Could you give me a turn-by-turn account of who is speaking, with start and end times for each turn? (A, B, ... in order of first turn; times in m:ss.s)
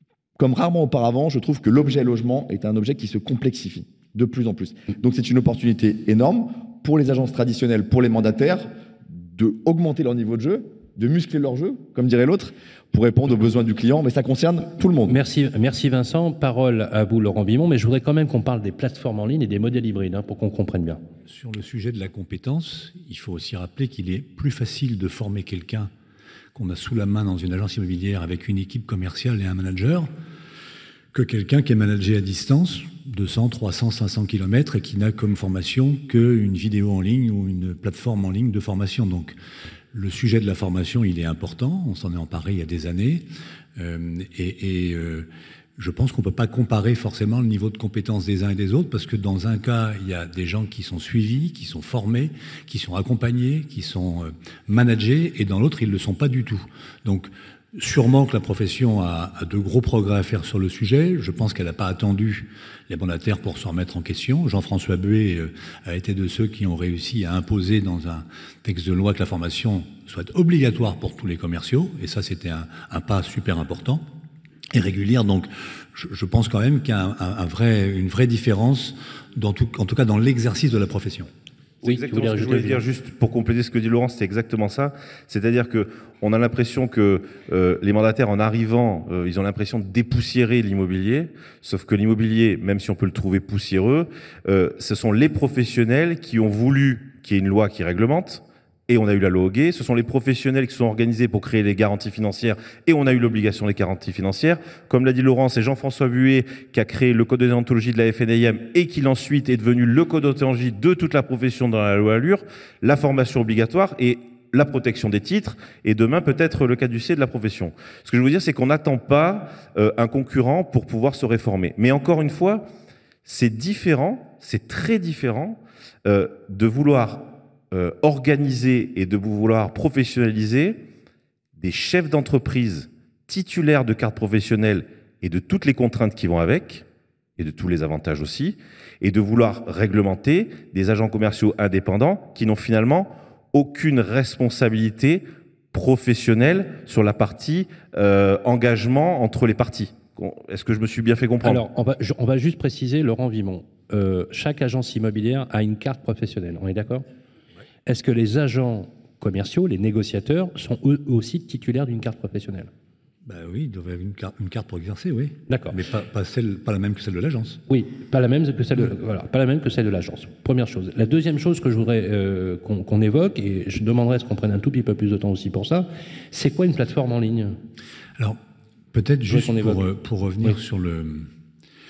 0:00.4-0:15.2 A
0:15.1-0:21.0 B
0:21.3-0:25.9 C
0:26.5-0:30.1 C
0:31.1-0:39.4 C
0:39.9-0:43.2 C
0:43.8-1:14.0 C
1:14.7-1:21.3 C
1:21.8-1:22.8 B
1:21.8-2:02.7 D
2:03.2-2:10.8 D
2:11.6-2:16.8 D
2:17.4-2:31.6 D
2:31.4-2:37.0 B
2:37.9-2:42.7 B
2:43.3-2:47.6 C
2:45.5-2:45.8 B
2:47.7-2:57.6 B
2:58.9-3:01.3 C
2:59.3-2:59.9 B